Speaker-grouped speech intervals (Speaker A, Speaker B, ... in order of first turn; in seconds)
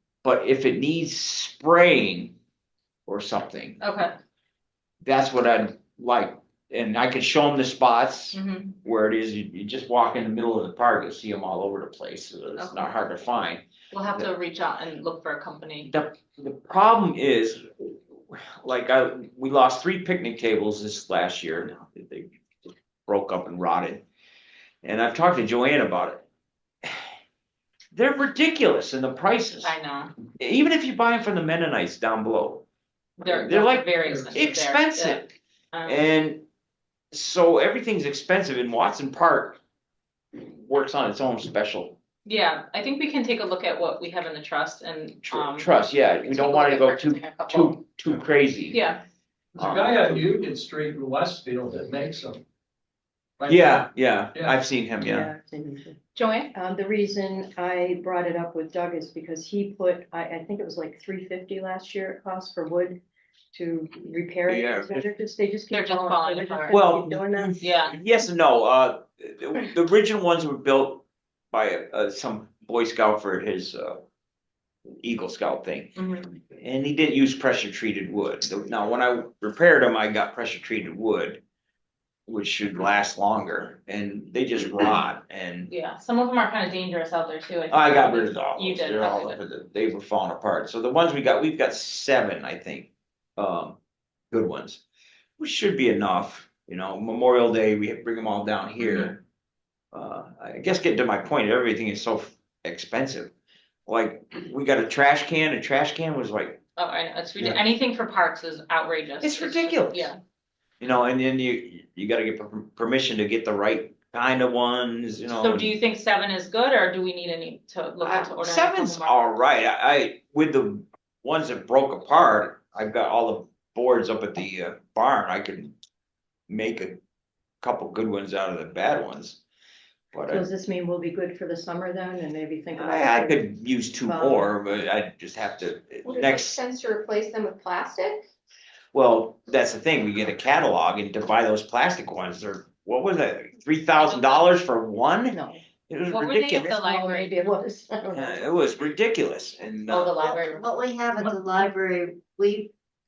Speaker A: 0.2-2.4, 3.1-3.8, 5.0-13.6, 15.8-22.3, 23.1-24.0, 24.8-26.2, 27.9-29.7, 30.4-32.6, 33.3-35.3, 35.9-36.4, 37.1-39.6, 40.5-42.0, 45.2-48.8, 49.6-50.2, 53.5-55.3, 64.5-64.9, 66.7-74.0, 75.0-75.9, 76.5-81.4, 82.3-85.7, 87.7-93.8, 94.3-94.8, 95.4-99.2, 99.9-103.3, 103.8-106.6, 109.2-110.1, 110.8-115.7, 118.0-125.8, 126.5-127.0, 127.6-129.4, 130.1-130.4, 132.8-136.6, 138.9-146.8, 148.1-150.2
Speaker B: 3.8-4.1, 8.3-8.7, 12.6-12.9, 13.9-15.9, 29.6-30.1, 33.2-36.0, 42.2-47.8, 48.7-49.0, 56.1-56.5, 65.7-66.8, 67.6-67.9, 75.9-76.3, 85.7-89.4, 98.8-99.1, 106.8-110.1, 115.4-119.2, 144.0-144.4, 146.1-147.4, 149.9-150.7
Speaker C: 49.5-52.4, 53.4-54.6
Speaker D: 55.0-56.0, 56.5-63.0, 63.5-67.6, 130.3-133.4, 134.0-134.5, 145.3-145.6, 146.8-148.4
Speaker E: 136.0-138.3
Speaker F: 150.2-152.7